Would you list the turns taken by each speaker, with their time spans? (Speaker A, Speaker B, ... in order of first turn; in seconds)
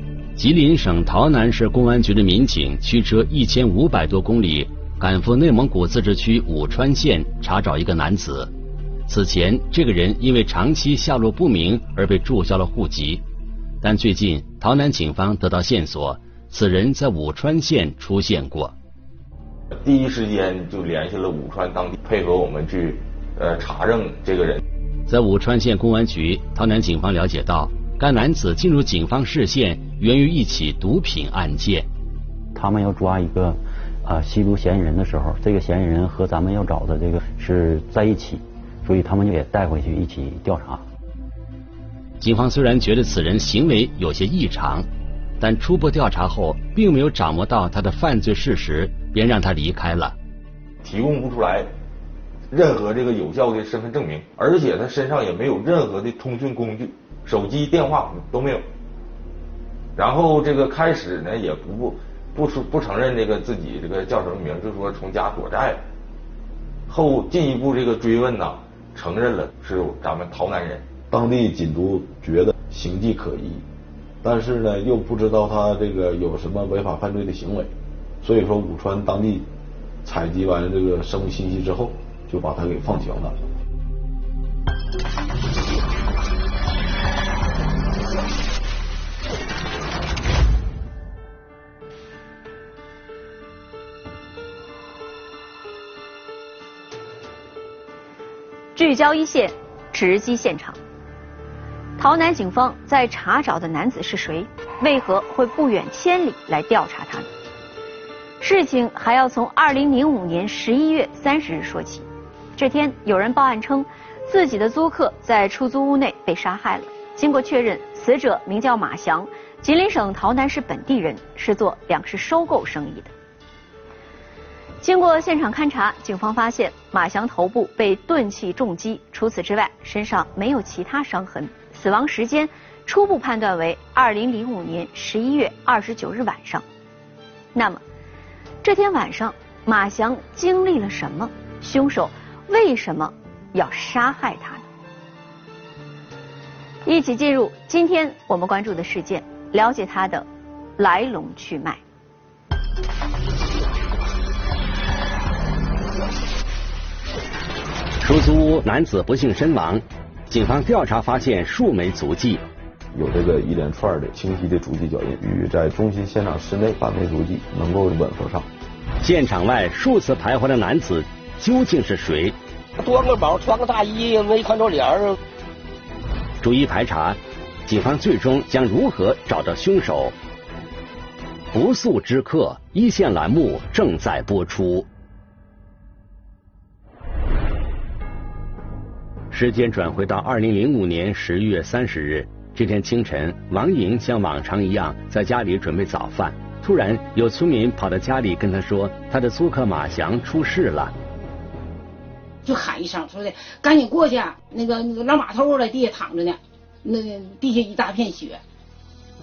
Speaker A: 0.3-8.5, 9.1-13.2, 13.8-18.7, 25.1-31.9, 42.2-44.9, 45.4-50.1, 158.0-162.4, 169.0-172.3, 176.4-180.1, 181.5-184.9, 189.3-200.9
Speaker B: 19.7-24.6, 50.8-51.7, 52.5-58.6, 60.0-65.8, 66.9-70.8
Speaker C: 32.5-40.8
Speaker D: 71.1-73.7, 74.2-77.7, 78.2-79.5, 80.0-83.4, 162.9-168.5
Speaker E: 98.8-100.8, 102.0-107.3, 108.4-123.1, 124.8-136.6, 137.5-137.8, 138.6-144.6, 146.8-150.3, 150.8-151.8
Speaker F: 172.8-175.2
Speaker G: 202.4-208.4